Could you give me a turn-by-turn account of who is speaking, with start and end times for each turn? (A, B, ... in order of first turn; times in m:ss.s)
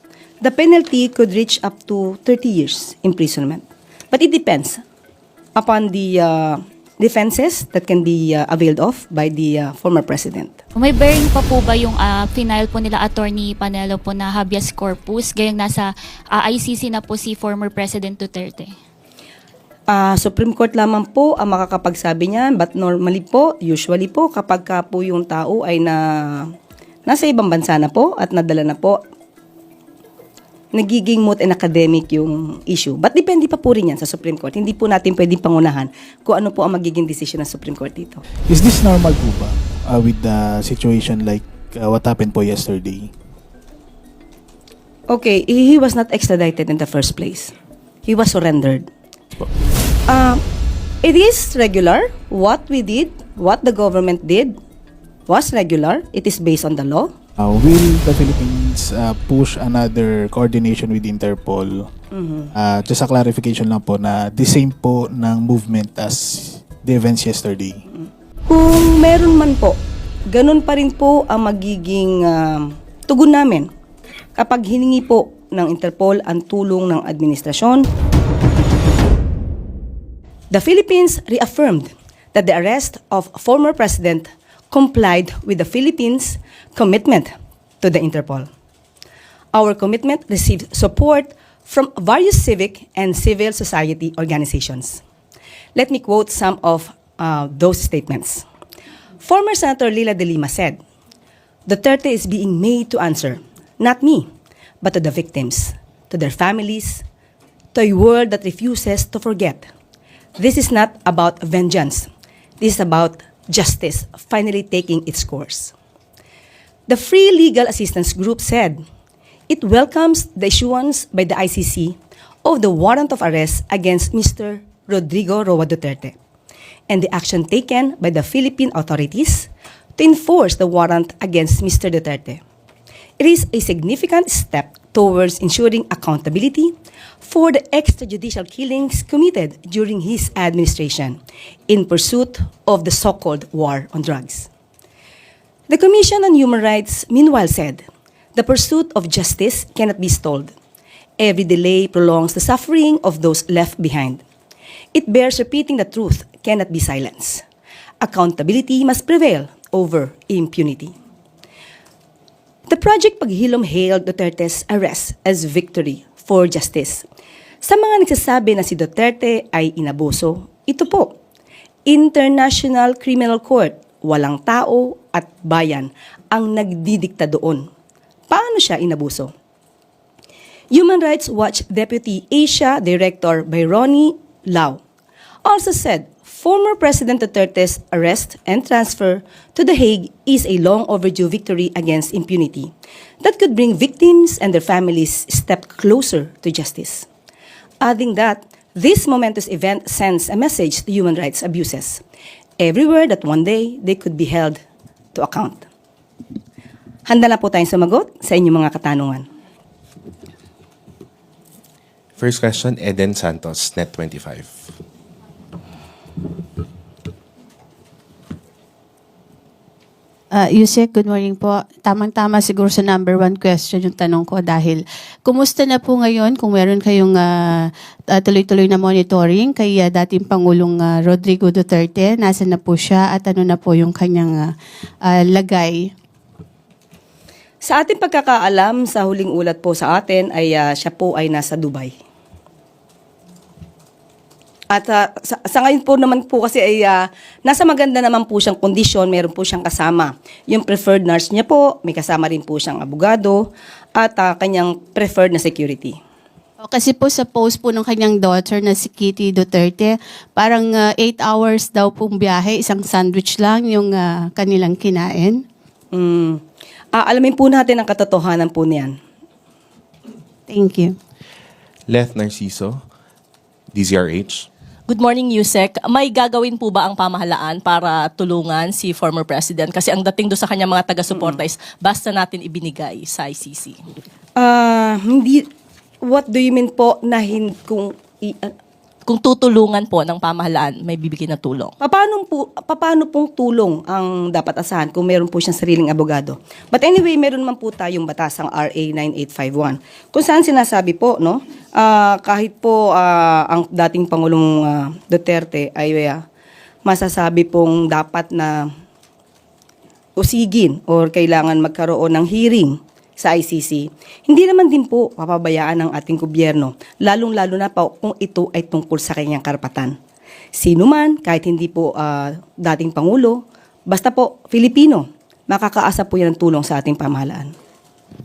0:00.4-0:04.8 A
0:05.6-0:10.6 A
0:10.8-0:18.7 B
0:19.9-0:26.5 A
0:27.1-0:29.0 A
0:30.7-0:38.2 A
0:38.5-0:43.1 C
0:45.1-0:47.5 A
0:48.0-0:48.9 A
0:50.1-0:50.4 A
0:51.0-0:54.5 A
0:55.3-0:57.1 A
0:57.4-1:01.9 C
1:02.1-1:02.5 A
1:02.5-1:07.8 C
1:08.0-1:09.8 A
1:10.3-1:13.7 A
1:14.4-1:17.8 A
1:20.5-1:27.3 A
1:27.8-1:28.5 A
1:29.5-1:35.0 A
1:35.7-1:38.4 A
1:39.2-1:40.8 A
1:41.7-1:44.3 A
1:44.8-1:47.0 A
1:47.7-1:49.7 A
1:50.4-1:52.1 A
1:52.6-1:55.7 A
1:56.9-1:58.8 A
1:59.5-2:06.2 A
2:06.9-2:12.4 A
2:13.2-2:21.2 A
2:21.7-2:24.5 A
2:25.7-2:30.5 A
2:31.2-2:34.2 A
2:34.9-2:37.4 A
2:38.0-2:40.9 A
2:42.7-2:47.0 A
2:47.6-2:51.2 A
2:51.8-2:57.7 A
2:58.3-2:59.3 A
3:00.7-3:04.8 A
3:05.4-3:17.1 A
3:17.8-3:22.0 A
3:22.6-3:24.6 A
3:25.1-3:25.6 A
3:27.0-3:29.2 A
3:32.2-3:34.5 D
3:40.3-3:54.5 E
3:55.0-3:55.9 E
3:57.6-4:02.0 A
4:04.7-4:16.0 A
4:16.6-4:25.4 E
4:25.9-4:26.4 A
4:26.9-4:29.0 A
4:30.5-4:30.9 E
4:31.9-4:32.8 D
4:33.7-4:34.5 D
4:34.9-4:43.7 F
4:44.4-4:45.4 A
4:46.0-4:48.5 A
4:49.1-4:51.7 F
4:51.8-5:06.2 A
5:06.8-5:08.7 A
5:10.2-5:19.9 A
5:20.5-5:27.5 A